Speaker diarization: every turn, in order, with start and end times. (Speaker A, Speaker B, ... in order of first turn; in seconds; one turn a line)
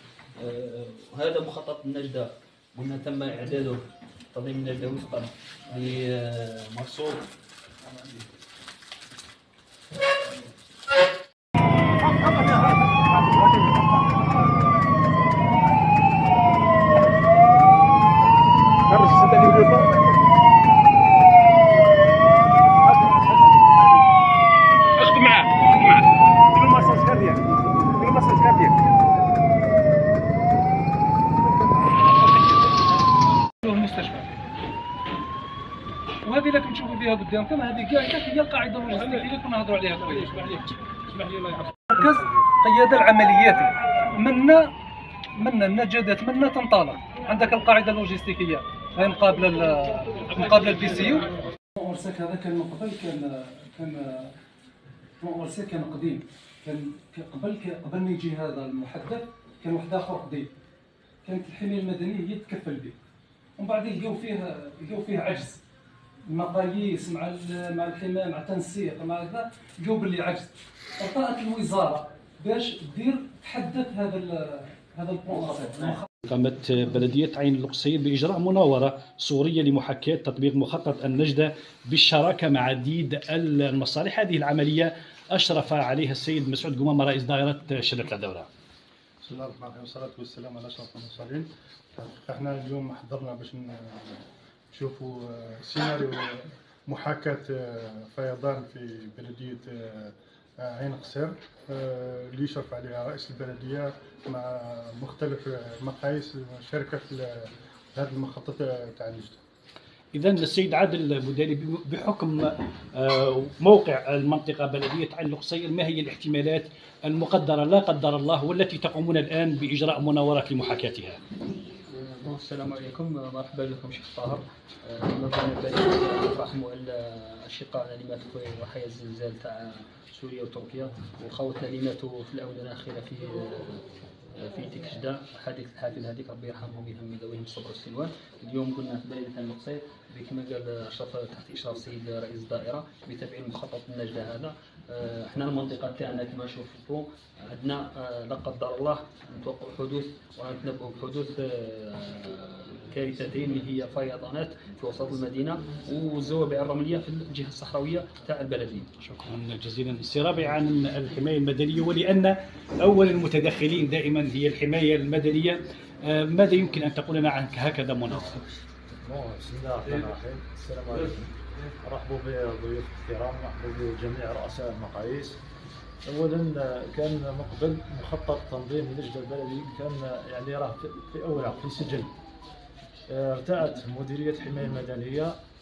Speaker A: 0.4-7.3
Speaker B: 19.1-19.5
Speaker C: 33.6-34.3
Speaker C: 36.2-40.7
Speaker C: 41.9-44.7
Speaker C: 45.4-54.3
Speaker C: 55.2-60.5
Speaker C: 61.2-63.0
Speaker C: 63.6-65.6
Speaker C: 66.3-76.1
Speaker B: 76.3-88.5
Speaker D: 89.2-94.2
Speaker D: 94.7-109.4
Speaker B: 110.1-121.2
Speaker A: 121.9-133.8
Speaker A: 134.3-158.9
Speaker B: 159.0-168.5
Speaker E: 168.9-175.4
Speaker E: 176.1-182.1
Speaker E: 183.1-185.3